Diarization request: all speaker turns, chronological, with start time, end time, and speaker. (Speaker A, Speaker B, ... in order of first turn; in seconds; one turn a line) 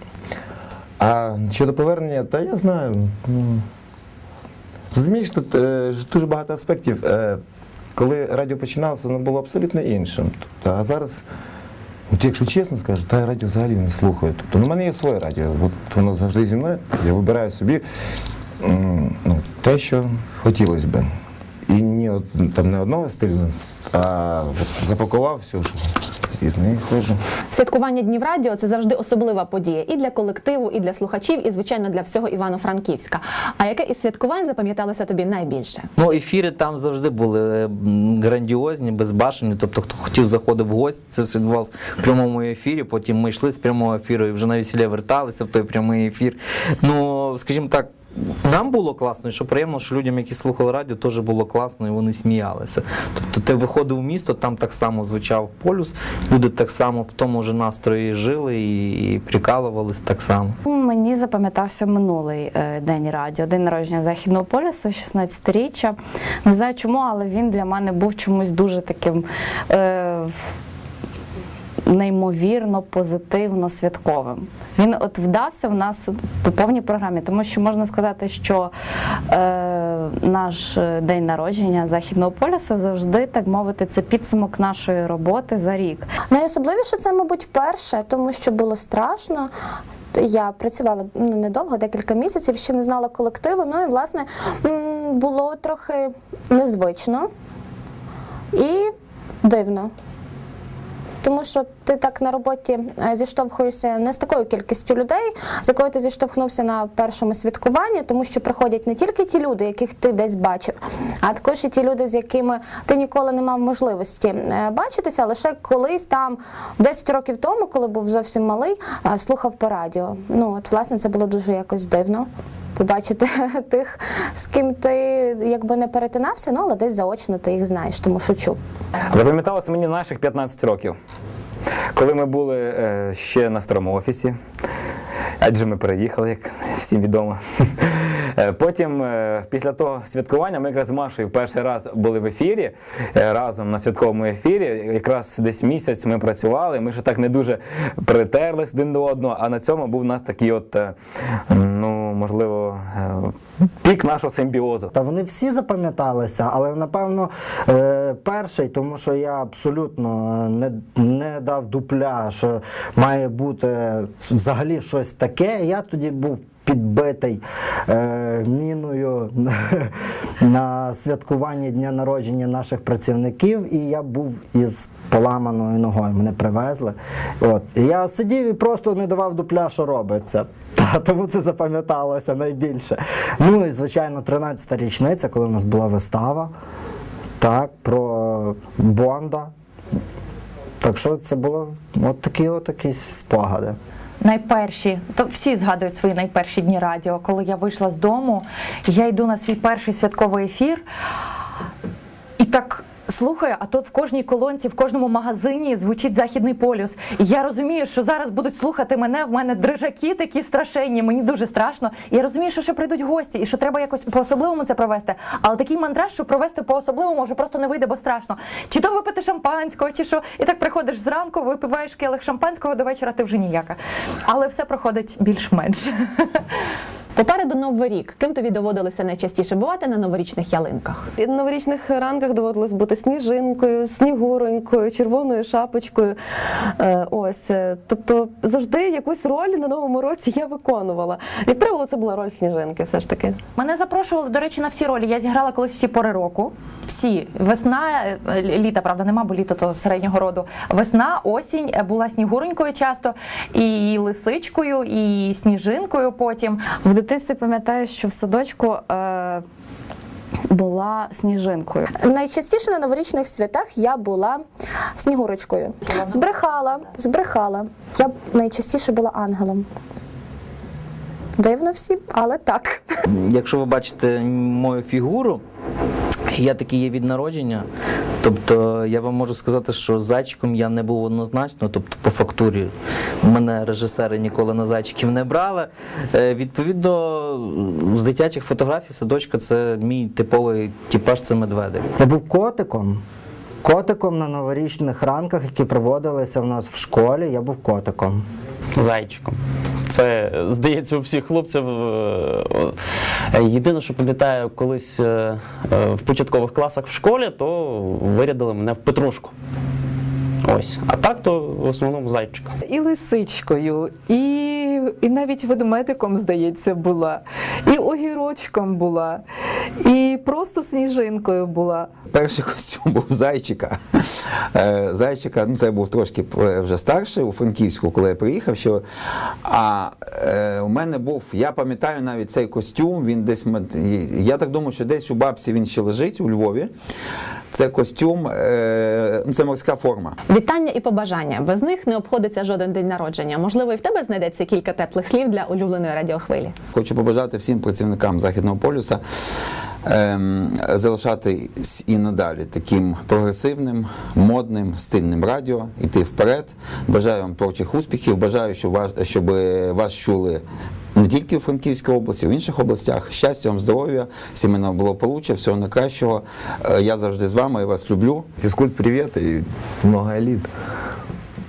Speaker A: 1.0-3.6
Speaker A: 4.9-7.4
Speaker A: 7.9-11.2
Speaker A: 12.1-17.8
Speaker A: 18.6-21.1
Speaker A: 21.7-25.9
Speaker A: 26.4-27.2
Speaker B: 27.5-35.9
Speaker C: 36.0-60.6
Speaker D: 60.6-70.4
Speaker D: 71.9-78.7
Speaker D: 79.3-86.1
Speaker E: 86.3-89.5
Speaker E: 90.1-97.3
Speaker E: 98.5-98.9
Speaker E: 99.4-99.9
Speaker E: 101.2-128.6
Speaker F: 129.1-131.0
Speaker F: 131.9-134.4
Speaker F: 135.4-150.9
Speaker F: 151.5-154.9
Speaker G: 154.9-186.5
Speaker G: 187.4-189.5
Speaker G: 190.8-193.8
Speaker H: 194.2-200.8
Speaker H: 202.4-225.9
Speaker B: 227.2-231.1
Speaker I: 231.2-243.4
Speaker H: 243.6-256.8
Speaker D: 256.8-259.4
Speaker D: 260.5-261.9
Speaker E: 262.0-264.4
Speaker E: 265.0-269.6
Speaker E: 271.4-272.9
Speaker C: 273.1-275.4
Speaker C: 276.3-277.7
Speaker C: 278.2-291.9
Speaker G: 292.0-293.0
Speaker G: 293.6-298.2
Speaker J: 298.8-299.4
Speaker J: 299.9-302.8
Speaker J: 303.3-309.3
Speaker J: 310.4-312.5
Speaker K: 312.6-319.2
Speaker K: 319.8-321.9
Speaker L: 322.1-323.8
Speaker L: 324.5-328.8
Speaker L: 329.4-336.7
Speaker L: 337.5-340.1
Speaker B: 340.3-346.6
Speaker L: 346.7-349.0
Speaker L: 349.9-360.4
Speaker L: 361.0-368.3
Speaker A: 368.4-370.5